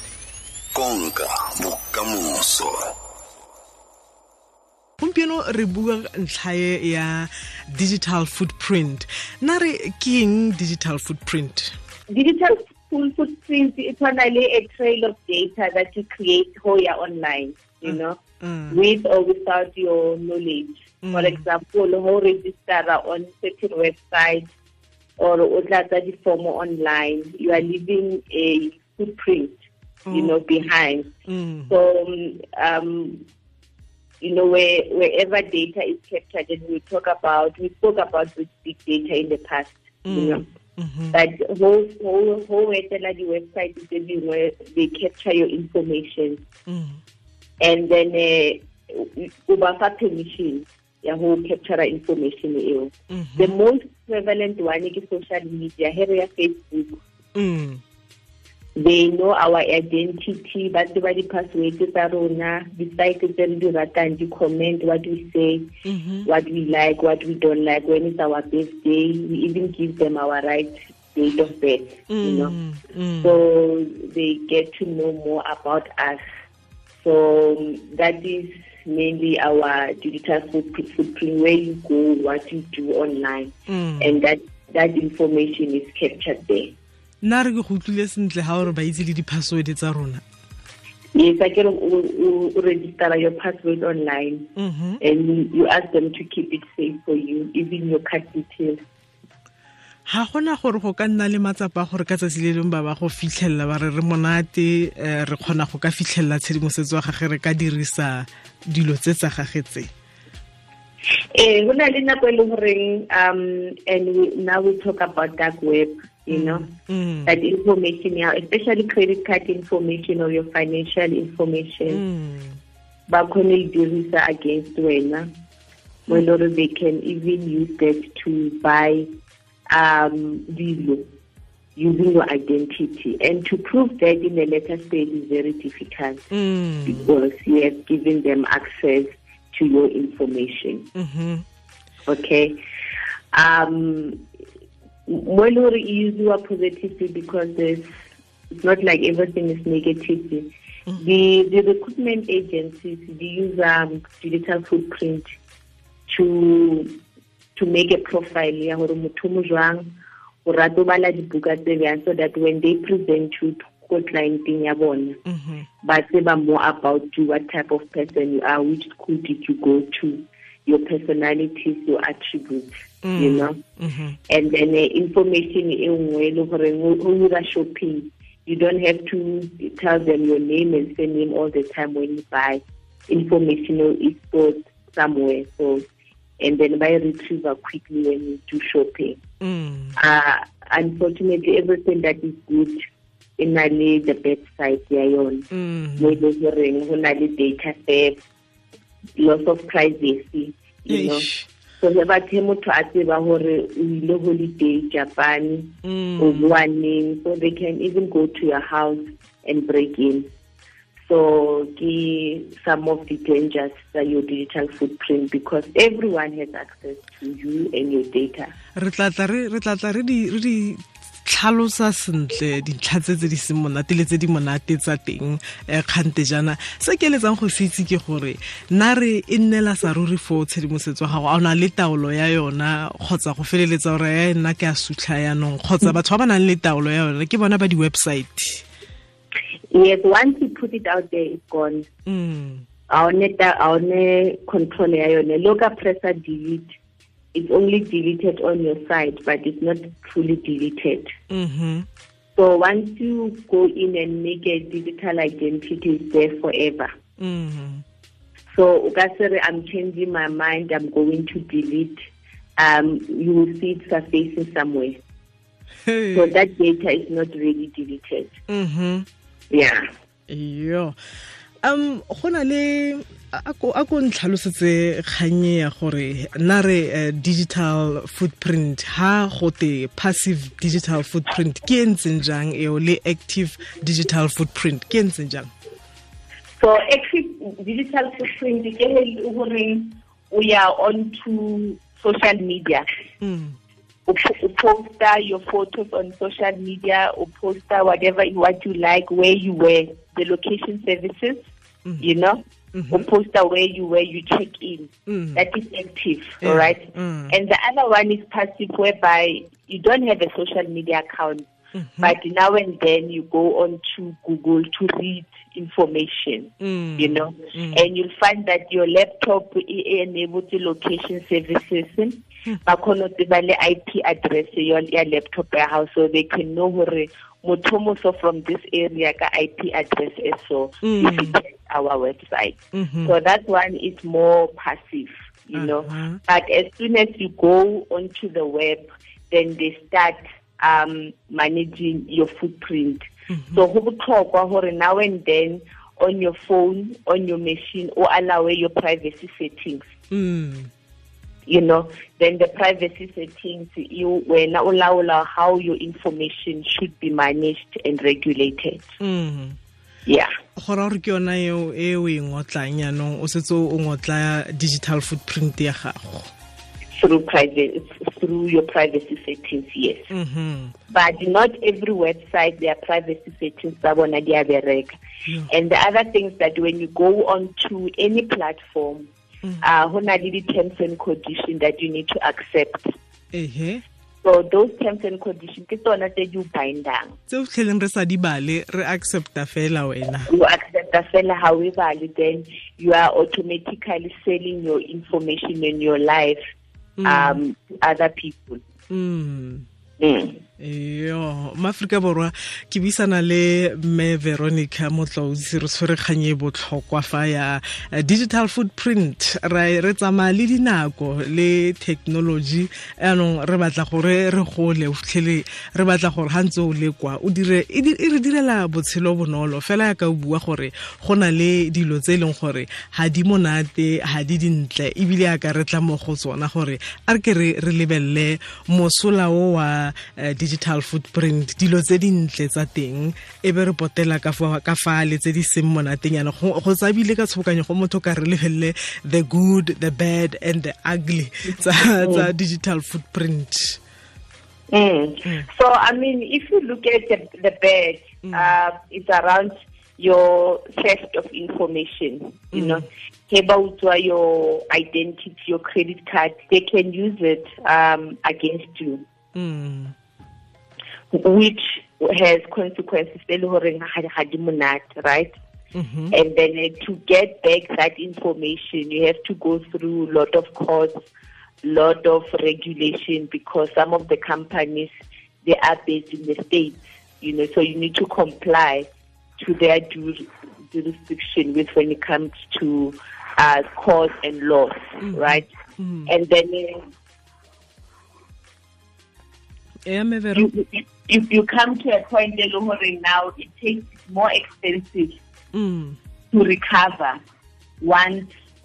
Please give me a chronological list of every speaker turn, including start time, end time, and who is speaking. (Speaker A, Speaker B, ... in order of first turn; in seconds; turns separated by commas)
Speaker A: 0.7-2.8, Speaker B: 5.0-11.7, Speaker C: 12.1-18.2, Speaker B: 17.9-18.8, Speaker C: 18.7-24.5, Speaker B: 21.0-21.4, Speaker C: 25.2-29.6, Speaker B: 30.1-30.4, Speaker C: 30.1-31.1, Speaker B: 31.3-31.7, Speaker C: 31.7-33.2, Speaker C: 34.2-40.5, Speaker B: 40.0-41.2, Speaker C: 41.1-46.4, Speaker B: 46.7-47.0, Speaker C: 47.6-57.0, Speaker B: 53.1-53.5, Speaker B: 57.4-57.8, Speaker C: 58.8-65.7, Speaker B: 65.8-66.3, Speaker C: 66.2-72.5, Speaker B: 72.1-73.4, Speaker C: 73.2-76.2, Speaker C: 77.0-86.7, Speaker B: 83.7-84.2, Speaker B: 87.2-90.2, Speaker C: 91.1-94.5, Speaker B: 94.6-95.0, Speaker C: 95.0-98.8, Speaker B: 100.1-109.9, Speaker C: 111.3-116.7, Speaker B: 116.3-117.4, Speaker C: 117.3-122.0, Speaker B: 121.9-122.6, Speaker C: 123.1-125.3, Speaker C: 126.1-129.1, Speaker C: 129.7-131.1, Speaker C: 131.8-136.2, Speaker B: 136.3-137.1, Speaker C: 136.8-140.9, Speaker B: 141.0-141.4, Speaker C: 142.1-142.6, Speaker C: 143.3-144.3, Speaker C: 145.1-147.9, Speaker C: 148.5-155.3, Speaker C: 156.1-157.0, Speaker C: 157.6-159.9, Speaker C: 160.4-165.2, Speaker B: 165.3-165.7, Speaker C: 165.8-173.6, Speaker B: 173.0-174.2, Speaker C: 174.3-185.8, Speaker C: 186.4-189.2, Speaker B: 189.4-190.0, Speaker C: 190.0-192.8, Speaker C: 193.4-195.5, Speaker B: 195.5-196.2, Speaker C: 196.0-198.2, Speaker C: 199.2-201.3, Speaker B: 200.9-201.5, Speaker C: 201.8-210.3, Speaker B: 205.8-206.6, Speaker C: 211.0-218.5, Speaker B: 218.8-238.6, Speaker C: 239.7-241.9, Speaker B: 242.1-242.6, Speaker C: 242.9-246.7, Speaker C: 247.3-251.1, Speaker B: 251.3-251.9, Speaker C: 252.3-256.9, Speaker B: 257.2-257.8, Speaker C: 258.5-262.1, Speaker C: 262.6-265.0, Speaker B: 265.9-266.3, Speaker C: 266.1-268.4, Speaker B: 268.5-269.1, Speaker C: 269.5-269.9, Speaker B: 270.3-270.9, Speaker B: 271.6-285.5, Speaker C: 286.6-292.9, Speaker B: 293.2-293.6, Speaker C: 294.1-301.5, Speaker C: 302.0-311.5, Speaker B: 302.7-303.0, Speaker B: 305.1-305.4, Speaker B: 306.4-307.4, Speaker B: 311.8-312.1, Speaker C: 312.0-349.9, Speaker B: 316.6-317.9, Speaker B: 330.8-331.4, Speaker B: 332.7-333.1, Speaker B: 335.6-336.2, Speaker B: 343.3-343.6, Speaker B: 350.1-350.7, Speaker C: 351.5-358.9, Speaker B: 359.0-359.6, Speaker C: 360.1-360.3, Speaker B: 360.6-366.3, Speaker C: 367.0-370.1, Speaker B: 370.1-370.7, Speaker C: 370.9-379.1, Speaker C: 379.6-382.9, Speaker B: 383.3-383.8, Speaker C: 384.2-387.2, Speaker B: 387.3-390.3, Speaker C: 390.3-396.4, Speaker B: 397.0-397.4, Speaker C: 397.1-398.6, Speaker B: 398.9-399.6, Speaker C: 400.0-400.4, Speaker B: 400.6-443.8, Speaker C: 442.0-442.3, Speaker C: 444.7-459.0, Speaker B: 448.2-448.6, Speaker B: 452.5-452.8, Speaker B: 459.4-459.9, Speaker C: 461.1-465.4, Speaker B: 465.8-466.1, Speaker C: 466.1-471.0, Speaker C: 471.6-478.9, Speaker C: 479.4-485.5, Speaker B: 485.0-486.1, Speaker C: 486.1-486.9, Speaker B: 489.9-490.5, Speaker C: 490.4-495.2, Speaker B: 495.5-496.0, Speaker C: 496.3-497.2, Speaker C: 497.8-498.3